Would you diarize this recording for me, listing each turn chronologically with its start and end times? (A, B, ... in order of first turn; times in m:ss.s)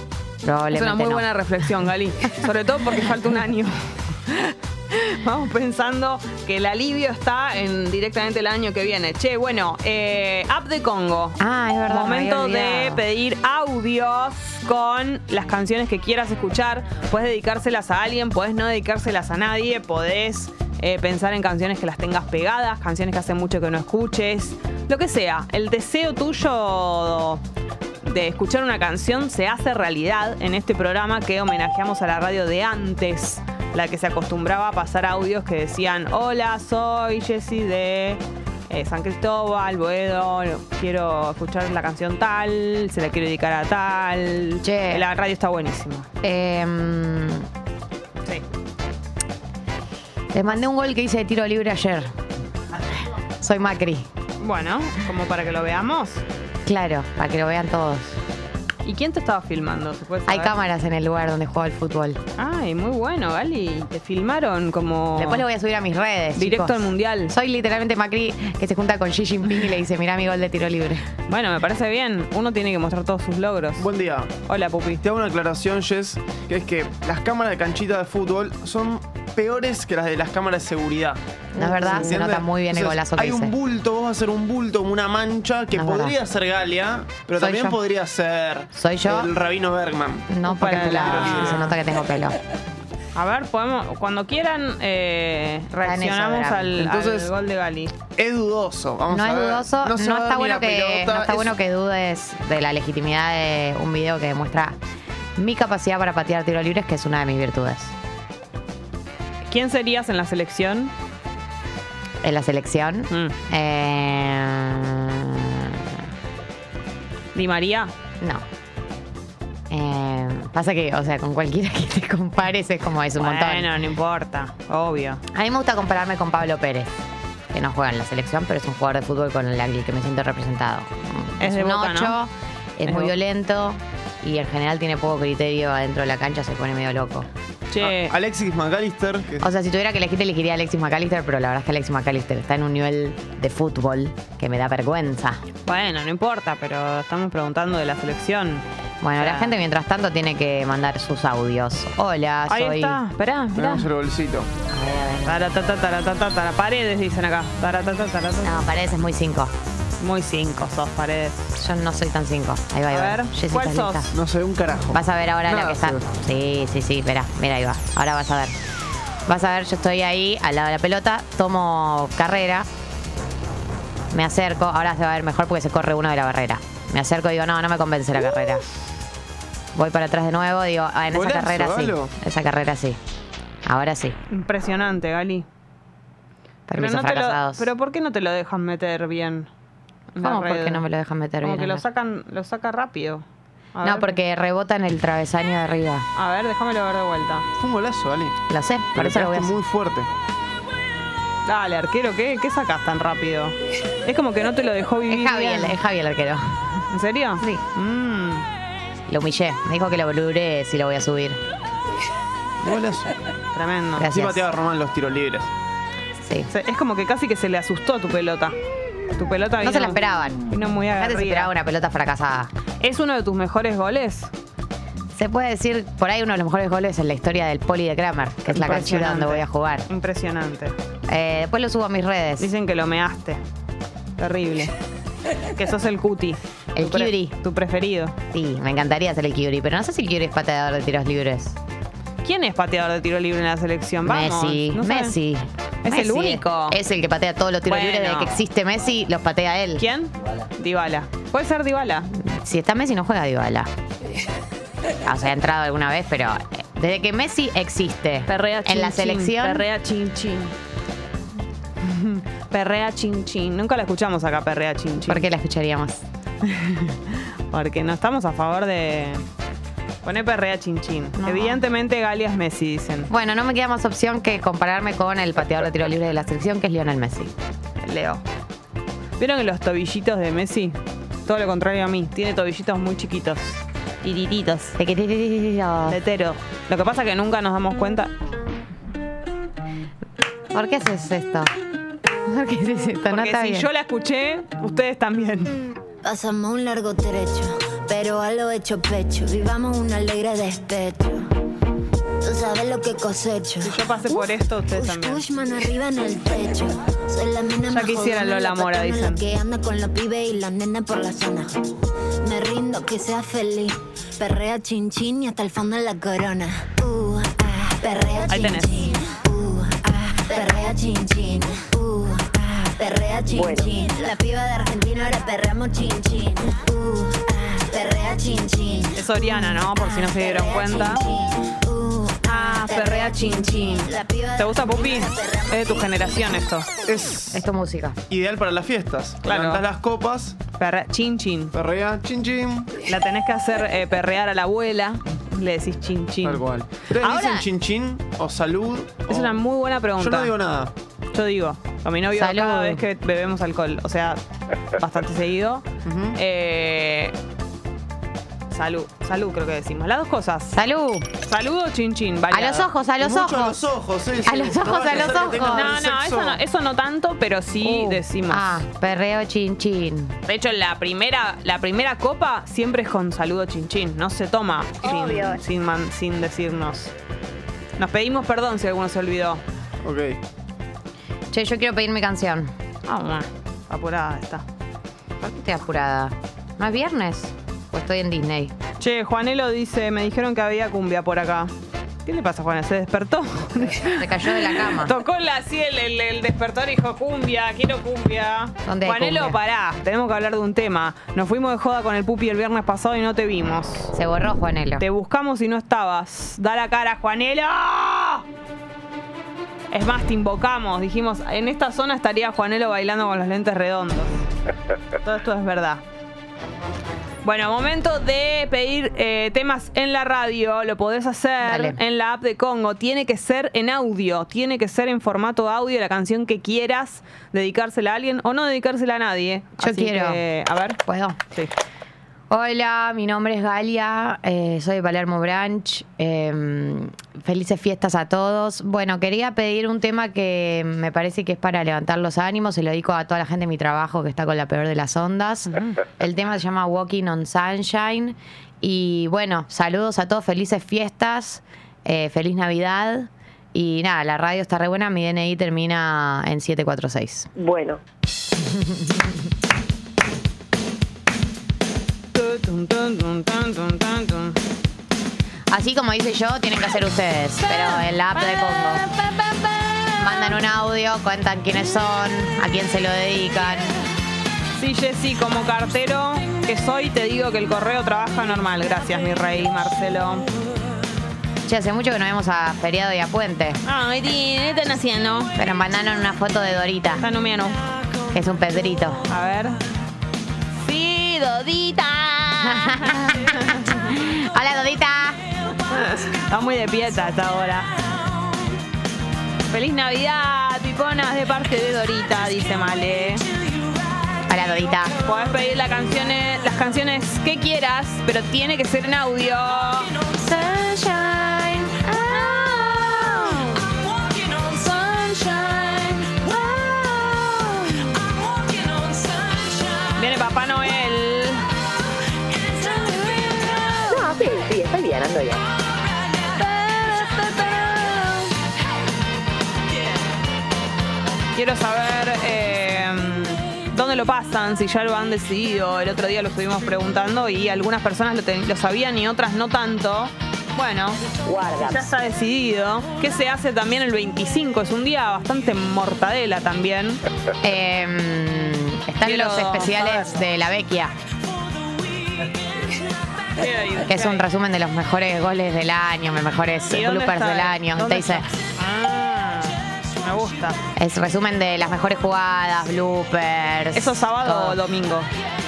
0:00.4-0:01.3 A
0:00.7-0:27.4 B
0:11.4-0:13.0 A
0:28.0-0:46.1 B
0:44.6-0:45.1 A
0:46.2-0:47.5 A
0:50.3-0:52.1 A
0:53.4-0:54.1 A
0:54.4-0:56.2 B
0:56.7-0:58.2 A
0:58.8-1:00.6 B
1:00.3-1:02.2 A
1:02.4-1:05.5 B
1:05.2-1:11.1 A
1:06.4-1:07.3 B
1:11.3-1:13.9 B
1:13.8-1:14.3 C
1:14.5-1:15.0 B
1:15.0-1:31.7 C
1:21.6-1:23.6 A
1:25.8-1:26.2 A
1:27.4-1:27.8 A
1:28.7-1:29.3 A
1:30.3-1:32.4 A
1:30.5-1:31.8 B
1:33.2-1:37.9 B
1:35.8-1:36.8 A
1:36.8-1:37.3 C
1:38.2-1:41.5 C
1:39.1-1:44.8 A
1:45.4-1:48.0 A
1:49.5-1:50.9 B
1:52.2-1:56.0 A
1:57.3-1:57.9 B
1:59.7-2:03.7 A
2:03.2-2:05.2 B
2:05.3-2:07.0 A
2:07.5-2:17.3 A
2:11.4-2:12.2 B
2:12.8-2:13.2 B
2:17.7-2:18.2 B
2:17.8-2:19.4 C
2:19.4-2:25.4 A
2:25.7-2:28.6 B
2:29.0-2:33.0 A
2:29.2-2:29.6 B
2:32.5-2:33.9 B
2:33.6-2:34.5 C
2:34.7-2:35.4 A
2:35.3-2:38.6 B
2:38.4-2:39.5 A
2:40.0-2:41.5 B
2:41.6-2:44.1 A
2:42.9-2:44.1 B
2:44.1-2:46.0 C
2:44.9-2:48.6 A
2:49.3-2:52.7 A
2:54.1-2:58.6 A
2:59.8-3:03.0 A
3:01.1-3:02.1 C
3:03.6-3:04.2 A
3:04.3-3:05.5 B
3:06.7-3:07.7 A
3:06.7-3:09.5 B
3:10.1-3:10.8 B
3:10.2-3:11.8 A
3:11.4-3:14.2 B
3:13.8-3:16.1 A
3:16.2-3:17.5 B
3:17.6-3:18.4 C
3:18.5-3:19.6 A
3:19.0-3:20.1 C
3:21.4-3:25.8 B
3:25.1-3:26.6 A
3:26.9-3:28.5 B
3:29.1-3:31.4 A
3:32.6-3:33.1 C
3:33.5-3:34.1 B
3:34.0-3:34.5 A
3:34.1-3:35.5 C
3:36.2-3:36.5 A
3:36.5-3:38.6 B
3:39.2-3:41.5 B
3:39.6-3:42.5 A
3:42.8-3:44.3 B
3:45.2-3:49.8 A
3:48.5-3:50.8 B
3:51.1-3:52.5 A
3:52.4-3:53.4 B
3:54.2-3:54.7 B
3:55.6-3:58.2 B
3:56.8-3:57.3 A
3:58.3-4:01.6 A
4:02.2-4:05.2 B
4:04.0-4:09.9 A
4:05.8-4:06.8 B
4:07.7-4:08.4 B
4:09.8-4:12.1 B
4:12.1-4:13.7 A
4:15.0-4:19.7 A
4:18.3-4:20.5 B
4:21.8-4:25.3 B
4:25.1-4:26.0 A
4:26.4-4:29.2 B
4:30.0-4:33.1 B
4:31.2-4:31.6 A
4:33.1-4:37.3 A
4:37.8-4:38.2 B
4:39.2-4:44.8 B
4:44.8-4:46.0 A
4:45.9-4:48.1 B
4:50.5-4:51.5 A
4:52.3-4:53.7 A
4:53.1-4:55.6 B
4:56.0-5:01.3 D
5:02.2-5:11.6 D
5:03.6-5:05.2 B
5:07.7-5:09.2 B
5:12.2-5:36.1 D
5:18.3-5:19.0 B
5:23.3-5:23.7 E
5:29.0-5:31.0 B
5:32.2-5:36.7 B
5:36.9-5:37.4 C
5:37.3-5:38.0 A
5:38.1-5:40.4 C
5:39.2-5:39.6 B
5:40.6-5:41.5 B
5:41.5-5:42.7 C
5:42.9-5:46.4 B
5:46.2-5:49.4 C
5:47.0-5:47.4 B
5:49.1-5:50.3 B
5:50.0-5:50.7 C
5:51.1-5:54.2 B
5:52.1-5:52.8 A
5:54.8-5:57.1 B
5:55.9-5:56.2 C
5:58.5-6:00.6 B
6:00.5-6:01.1 A
6:01.2-6:02.7 B
6:02.3-6:03.6 A
6:03.0-6:06.4 C
6:04.2-6:05.8 A
6:05.5-6:08.6 B
6:07.6-6:10.2 A
6:10.3-6:16.9 B
6:17.8-6:19.4 B
6:19.8-6:20.2 C
6:21.3-6:22.5 A
6:22.9-6:24.4 B
6:25.2-6:28.6 A
6:28.8-6:31.5 B
6:32.1-6:43.9 B
6:33.8-6:34.9 A
6:38.6-6:39.4 A
6:43.9-6:44.8 A
6:44.8-6:48.2 B
6:49.7-6:54.2 B
6:55.0-6:55.8 B
6:57.2-7:10.8 B
7:01.4-7:01.8 A
7:09.6-7:10.2 A
7:10.9-7:11.2 A
7:12.3-7:37.3 A
7:37.4-7:37.8 E
7:42.1-7:44.4 B
7:45.5-7:48.8 A
7:47.6-7:50.3 B
7:50.0-7:53.8 A
7:54.6-8:00.3 B
8:01.5-8:03.6 A
8:03.6-8:05.3 B
8:05.4-8:07.0 A
8:07.0-8:07.6 B
8:08.1-8:09.0 A
8:09.1-8:09.6 B
8:10.6-8:13.6 B
8:12.4-8:15.2 A
8:15.7-8:17.8 B
8:19.5-8:23.2 B
8:24.3-8:24.9 A
8:25.0-8:29.9 B
8:30.2-8:33.7 A
8:34.6-8:37.9 A
8:40.0-8:41.5 B
8:43.9-8:45.4 E
8:46.5-8:48.2 B
8:51.4-9:01.0 B
9:01.2-9:01.9 E
9:01.6-9:07.0 B
9:07.4-9:10.9 A
9:09.0-9:10.1 B
9:13.4-9:14.2 B
9:13.9-9:18.2 A
9:16.7-9:20.6 B
9:20.8-9:24.6 A
9:23.7-9:25.1 B